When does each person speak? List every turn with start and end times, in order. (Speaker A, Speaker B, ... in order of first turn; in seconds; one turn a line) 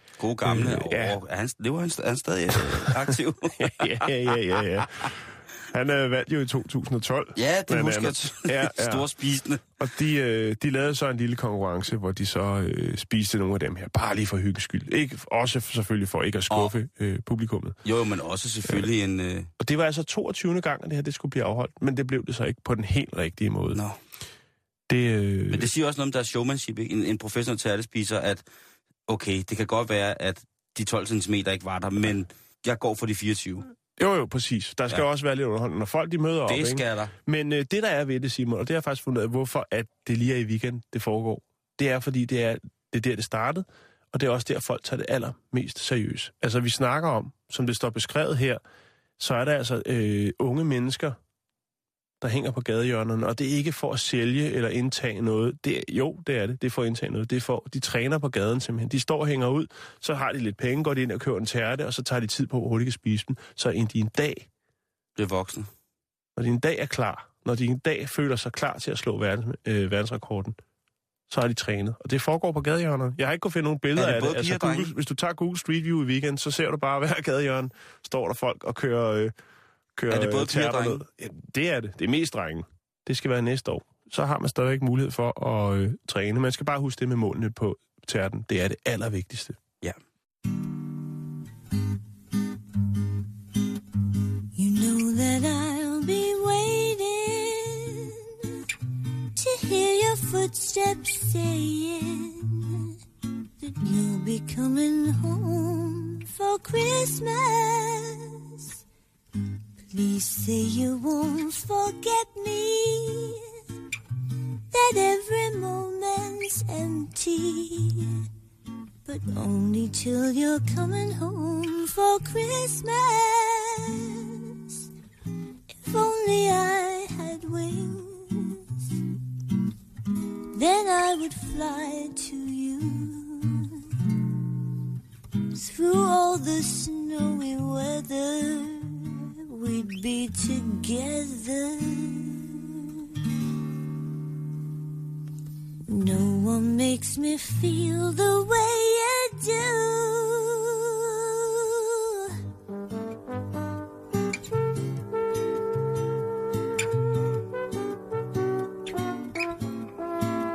Speaker A: 0.2-3.9
Speaker B: 0.4-1.1
Speaker B: 3.6-9.1
Speaker A: 7.3-9.6
Speaker B: 9.8-17.8
Speaker A: 16.5-16.7
Speaker A: 17.8-19.5
Speaker B: 19.6-23.8
Speaker A: 23.7-24.0
Speaker B: 24.9-25.7
Speaker A: 25.5-28.4
Speaker A: 29.1-33.6
Speaker B: 34.0-48.6
Speaker A: 36.5-37.1
Speaker B: 49.2-51.2
Speaker B: 52.2-64.5
Speaker A: 65.2-65.7
Speaker B: 66.3-70.6
Speaker B: 71.3-79.3
Speaker A: 74.0-74.9
Speaker B: 80.0-89.6
Speaker A: 80.1-81.0
Speaker C: 94.5-98.1
Speaker C: 99.3-102.9
Speaker C: 103.6-108.3
Speaker C: 109.9-113.4
Speaker C: 114.7-118.2
Speaker C: 119.0-123.9
Speaker C: 125.8-128.6
Speaker C: 130.5-133.7
Speaker C: 135.5-142.6
Speaker C: 145.9-151.9